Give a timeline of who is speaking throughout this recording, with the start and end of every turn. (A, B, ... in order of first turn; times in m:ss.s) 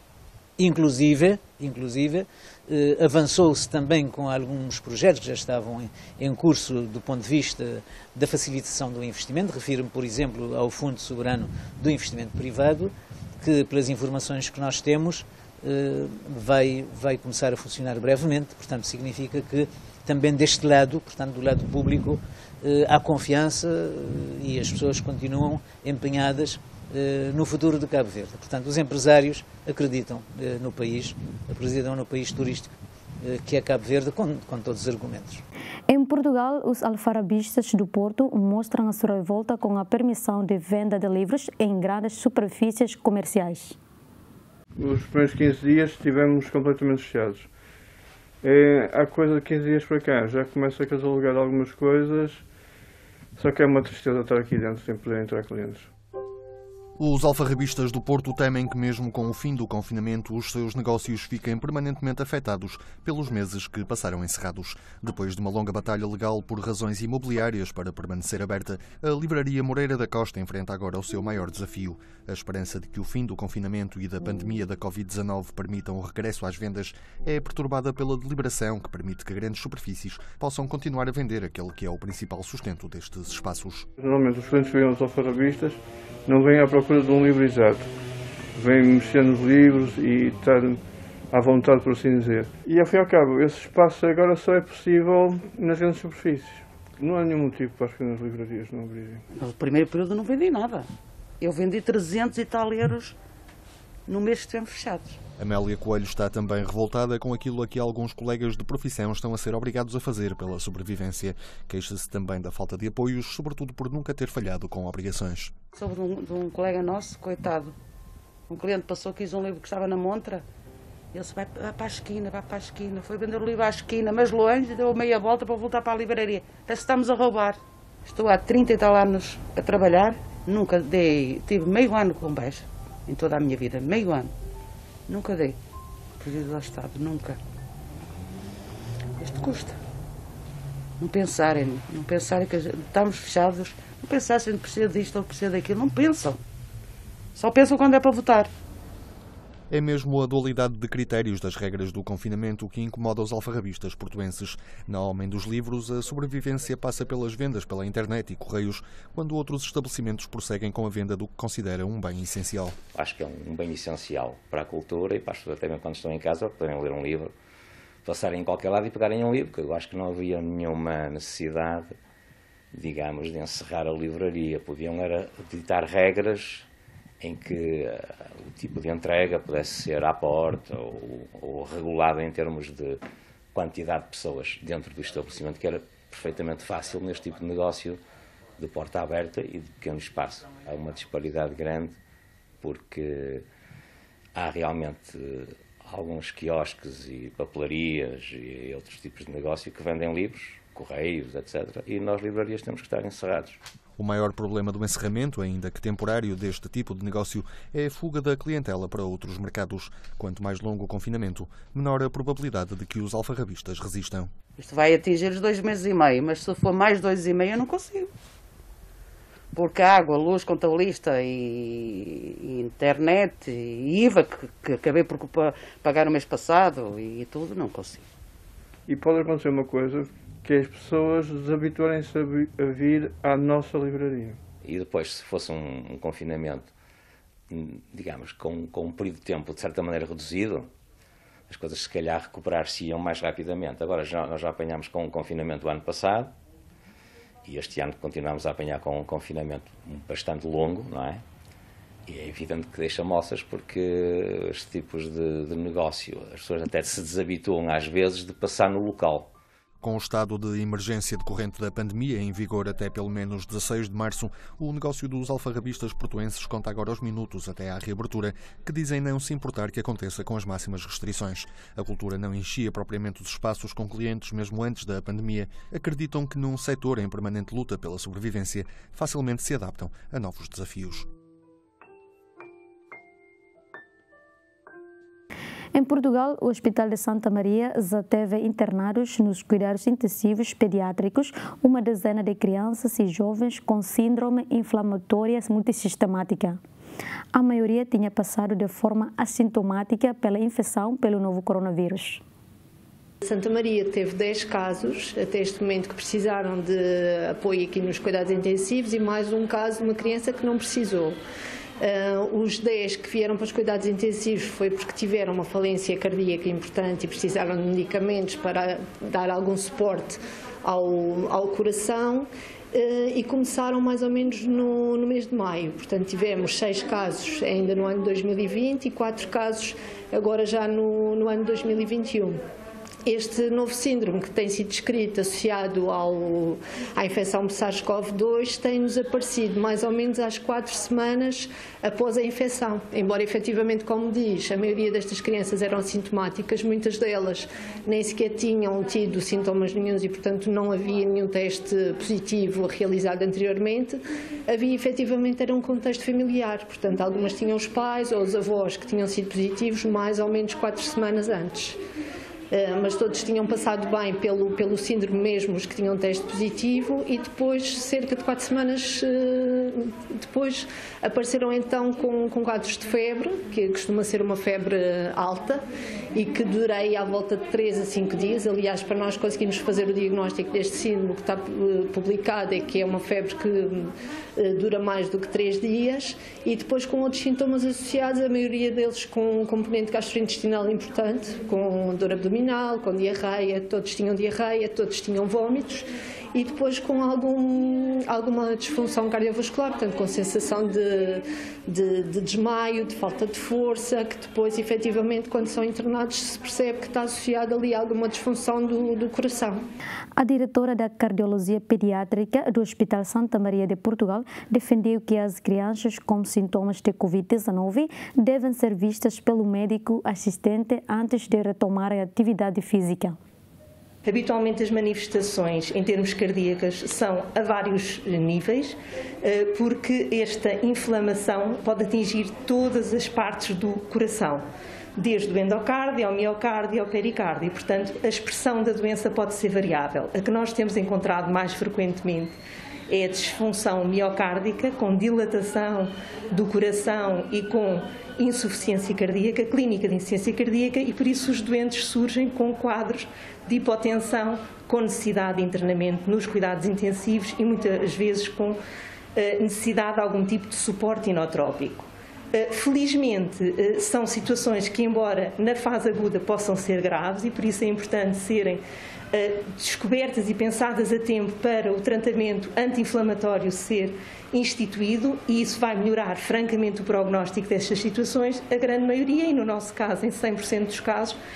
0:00.6-0:32.7 A
0:33.2-0:35.4 A
0:35.9-0:43.8 B
0:44.8-0:47.5 C
0:48.4-0:52.4 C
0:53.4-0:55.9 C
0:57.0-1:23.9 D
1:24.0-1:27.9 C
1:28.6-1:39.2 C
1:39.3-1:40.9 E
1:41.4-1:43.2 E
1:44.1-1:45.2 E
1:45.4-1:55.5 D
1:55.8-1:57.8 E
1:58.5-2:00.4 E
2:01.1-2:14.3 E
2:15.1-2:15.6 E
2:16.2-2:17.4 E
2:19.2-2:19.8 E
2:21.0-2:26.4 E
2:27.4-2:28.5 E
2:29.7-2:42.8 D
2:42.9-2:47.3 F
2:48.0-2:52.0 F
2:52.7-2:56.7 F
2:57.2-3:03.0 F
3:03.5-3:08.0 F
3:08.6-3:12.0 F
3:12.6-3:13.5 F
3:14.4-3:23.6 F
3:24.0-3:34.3 D
3:34.6-3:38.1 E
3:39.5-3:48.1 E
3:48.9-3:54.4 C
3:54.6-3:56.7 F
3:57.5-4:00.7 F
4:01.5-4:06.4 F
4:07.4-4:11.2 F
4:12.1-4:19.3 F
4:19.8-4:41.1 D
4:45.7-4:56.6 B
4:57.3-5:02.2 B
5:03.2-5:11.2 G
5:11.8-5:32.4 G
5:33.0-6:01.8 G
6:02.5-6:15.6 G
6:16.2-6:49.6 G
6:50.2-7:03.2 B
7:04.0-7:14.4 H
7:15.0-7:22.4 H
7:22.9-7:38.6 H
7:39.2-7:48.6 H
7:49.1-8:01.2 H